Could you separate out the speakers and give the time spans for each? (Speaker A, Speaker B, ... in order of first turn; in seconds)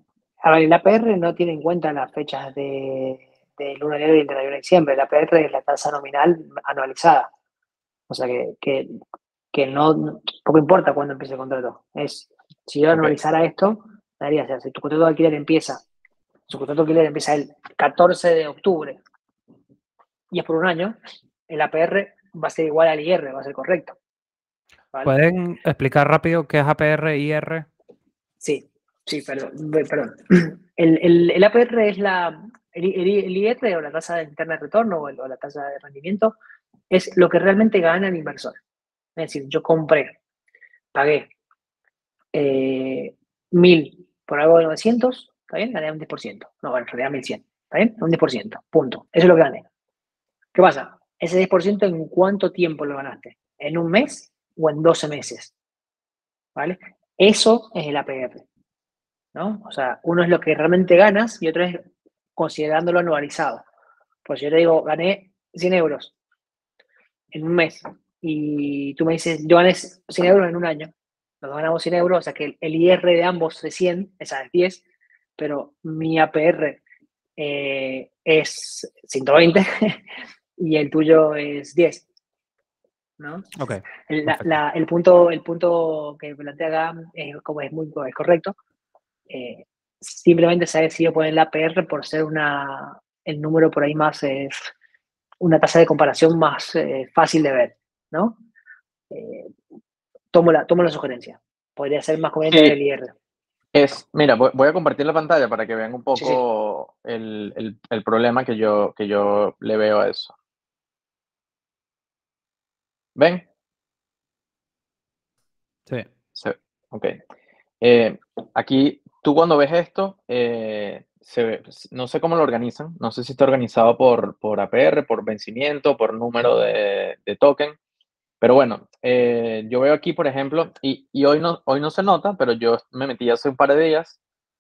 Speaker A: 0.4-7.3, 8.1-9.0, 9.5-15.8, 16.5-19.0, 20.3-21.0, 21.5-23.9, 28.4-36.3, 36.9-38.6, 39.1-40.2, 40.9-41.3, 42.3-49.6, 50.5-55.5, 56.5-58.4, 59.3-61.8, 62.4-63.6, 64.2-66.1, 67.3-74.8, 75.4-76.8, 77.4-80.0, 80.6-82.0, 83.2-83.5, 84.1-88.5, 89.3-94.7, 95.4-98.4, 99.1-99.5, 100.3-103.1, 106.2-106.4
Speaker B: 25.0-27.7, 83.6-84.5
Speaker C: 102.5-102.8, 103.7-110.3, 113.2-113.4, 116.3-117.2, 117.8-127.8, 128.4-134.2